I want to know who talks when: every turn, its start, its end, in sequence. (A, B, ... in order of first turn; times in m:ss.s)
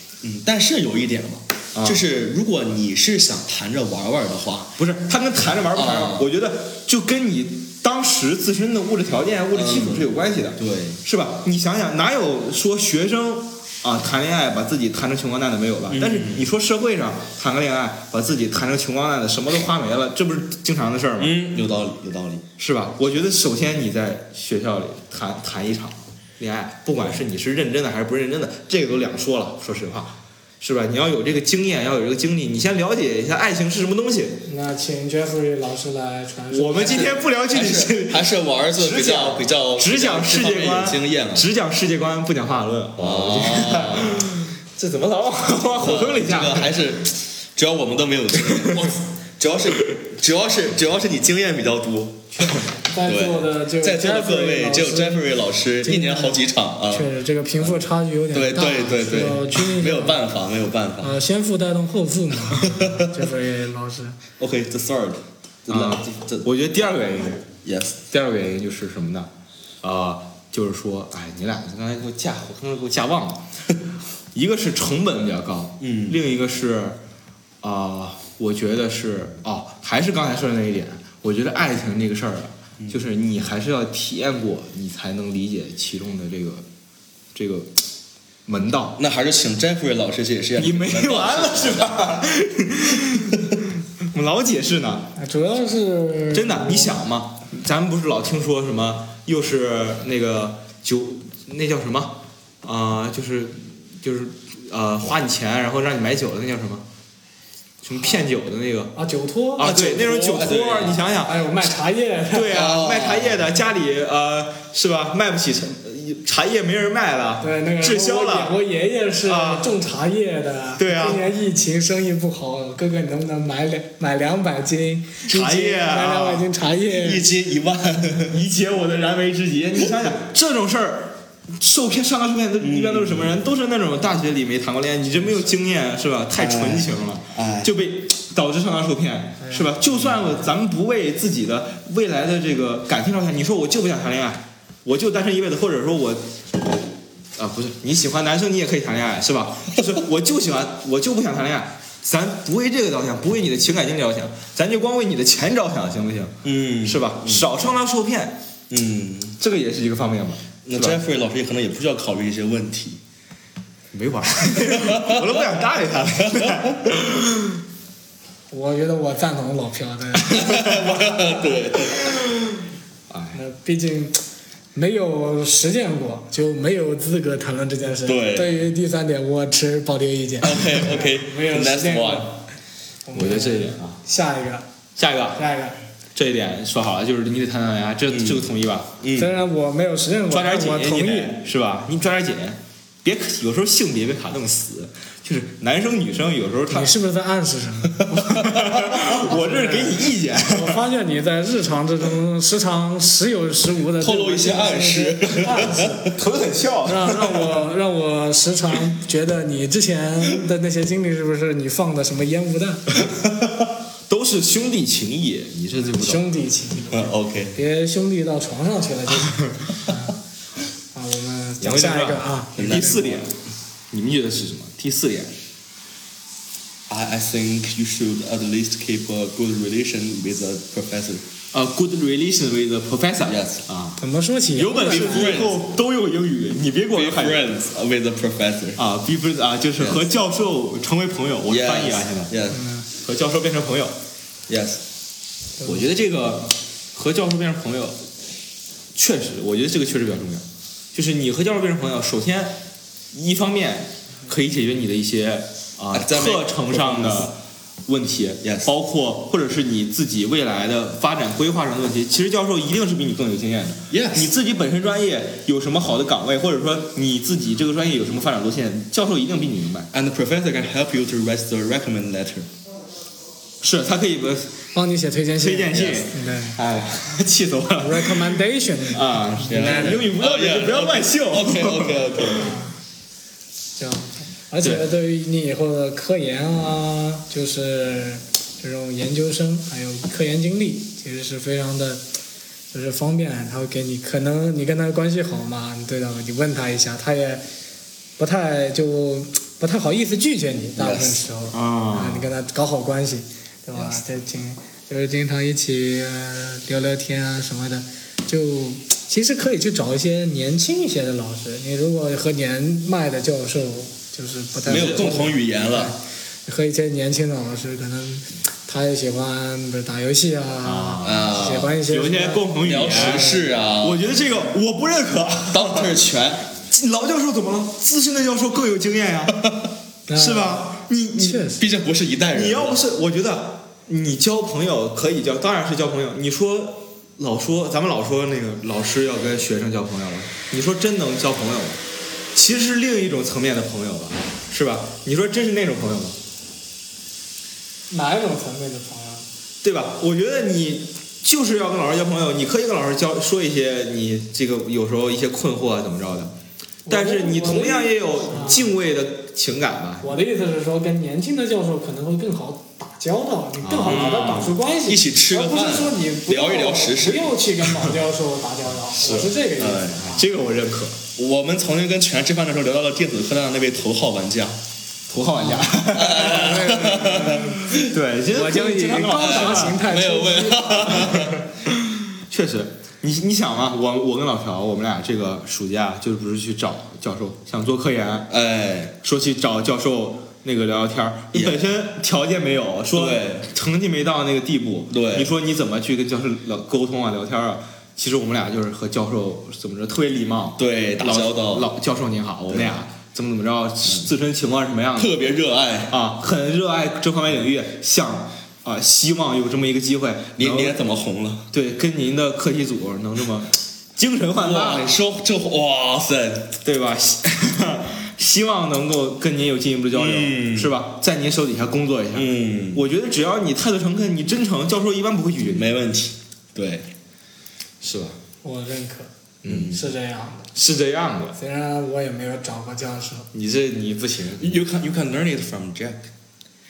0:00.2-0:04.8 A
0:01.8-0:02.0 B
0:04.8-0:21.4 B
0:05.8-0:06.2 A
0:09.5-0:11.0 A
0:15.9-0:16.5 A
0:21.2-0:22.4 A
0:22.6-0:34.4 B
0:34.5-0:37.2 C
0:36.5-0:46.8 B
0:36.9-0:41.5 A
0:43.0-0:44.3 A
0:45.8-0:52.3 A
0:48.4-0:48.9 B
0:52.3-0:55.3 C
0:53.0-0:57.7 A
0:55.8-1:00.2 C
0:58.3-1:01.2 A
1:01.0-1:04.2 C
1:02.6-1:03.1 A
1:04.4-1:06.5 A
1:05.7-1:07.4 B
1:07.6-1:08.0 A
1:08.1-1:09.3 B
1:09.8-1:13.5 B
1:14.3-1:17.0 B
1:15.8-1:16.2 A
1:17.6-1:26.7 B
1:27.3-1:27.8 B
1:28.5-1:29.0 B
1:29.0-1:32.0 A
1:30.6-1:35.1 B
1:35.2-1:37.0 C
1:36.3-1:46.9 B
1:47.8-1:48.9 B
1:48.0-1:48.2 C
1:49.0-1:50.1 C
1:49.6-1:51.5 B
1:49.7-1:51.1 A
1:51.2-1:52.6 C
1:52.3-1:58.6 B
1:52.5-1:53.5 A
1:57.4-2:07.3 C
1:59.2-1:59.8 B
2:00.8-2:01.2 B
2:05.3-2:06.5 B
2:06.8-2:08.4 A
2:08.3-2:26.3 B
2:12.6-2:13.4 A
2:16.4-2:17.7 A
2:19.4-2:19.8 C
2:27.4-2:38.4 B
2:36.4-2:37.5 A
2:38.7-2:39.4 A
2:39.4-2:41.0 B
2:40.6-2:43.0 A
2:43.9-2:47.6 B
2:44.7-2:45.4 A
2:46.2-2:46.7 A
2:48.5-2:51.4 C
2:50.3-2:52.2 A
2:53.1-2:53.4 B
2:53.3-2:54.2 C
2:54.8-3:02.4 C
2:58.0-2:58.6 A
3:00.4-3:02.4 A
3:03.1-3:04.7 C
3:03.1-3:04.0 B
3:05.0-3:05.4 B
3:05.4-3:05.8 C
3:06.2-3:09.0 B
3:08.1-3:08.5 A
3:09.0-3:09.4 A
3:09.2-3:11.4 C
3:10.3-3:16.9 B
3:16.7-3:26.0 C
3:18.1-3:20.8 B
3:18.3-3:18.6 A
3:24.0-3:26.1 A
3:26.1-3:27.6 B
3:26.8-3:33.0 C
3:34.1-3:36.3 B
3:35.9-3:40.1 C
3:36.9-3:37.6 A
3:40.9-3:43.2 C
3:41.6-3:43.4 B
3:42.6-3:43.1 A
3:43.9-3:45.3 B
3:46.9-3:51.2 A
3:51.5-3:54.0 B
3:53.2-3:53.6 A
3:54.0-3:55.5 C
3:54.5-3:57.5 B
3:54.7-3:55.6 A
3:56.9-3:58.8 A
3:58.8-4:02.3 B
3:59.8-4:00.0 A
4:01.5-4:02.6 A
4:02.5-4:02.9 C
4:02.9-4:04.0 B
4:04.5-4:04.8 A
4:05.6-4:05.9 C
4:05.6-4:08.0 B
4:09.0-4:29.9 B
4:15.9-4:17.3 A
4:18.4-4:18.7 A
4:23.9-4:24.3 A
4:29.9-4:32.5 A
4:33.6-4:34.6 B
4:34.7-4:36.6 C
4:35.4-4:38.4 B
4:37.8-4:39.9 C
4:38.9-4:42.4 B
4:39.5-4:42.6 A
4:42.4-4:42.7 C
4:43.8-4:52.0 C
4:52.7-4:57.4 C
4:58.2-5:23.5 C
5:00.8-5:01.2 A
5:01.5-5:02.3 B
5:14.7-5:16.0 A
5:14.7-5:15.2 B
5:20.6-5:26.0 B
5:21.0-5:21.8 A
5:22.6-5:24.1 A
5:25.5-5:26.5 A
5:26.6-5:29.4 B
5:30.1-5:31.6 C
5:30.1-5:31.5 B
5:31.6-5:32.8 A
5:32.3-5:41.8 B
5:42.3-5:46.2 B
5:47.9-5:49.3 C
5:49.6-5:56.3 B
5:56.9-5:58.7 C
5:56.9-6:00.1 B
6:00.0-6:10.3 C
6:03.6-6:04.6 B
6:03.8-6:07.4 A
6:09.0-6:09.4 B
6:09.6-6:10.1 A
6:10.1-6:11.0 B
6:11.2-6:14.6 A
6:15.1-6:16.8 B
6:15.4-6:17.7 C
6:15.9-6:17.9 A
6:17.7-6:19.9 B
6:18.3-6:21.1 C
6:19.1-6:21.4 A
6:21.1-6:28.3 B
6:28.3-6:29.0 A
6:29.0-6:45.1 B
6:31.3-6:31.6 A
6:32.9-6:33.5 A
6:34.9-6:35.3 A
6:40.6-6:41.7 A
6:42.5-6:42.8 A
6:45.0-6:46.0 A
6:45.9-6:50.8 B
6:50.4-6:51.5 A
6:51.5-6:54.9 B
6:54.4-6:56.6 A
6:56.6-7:05.7 B
6:59.9-7:00.7 A
7:02.2-7:02.8 A
7:05.5-7:06.9 A
7:07.8-7:08.2 B
7:08.4-7:10.5 C
7:09.4-7:09.8 B
7:09.5-7:09.8 A
7:10.5-7:11.4 B
7:11.4-7:13.3 C
7:13.3-7:14.6 B
7:14.4-7:16.0 A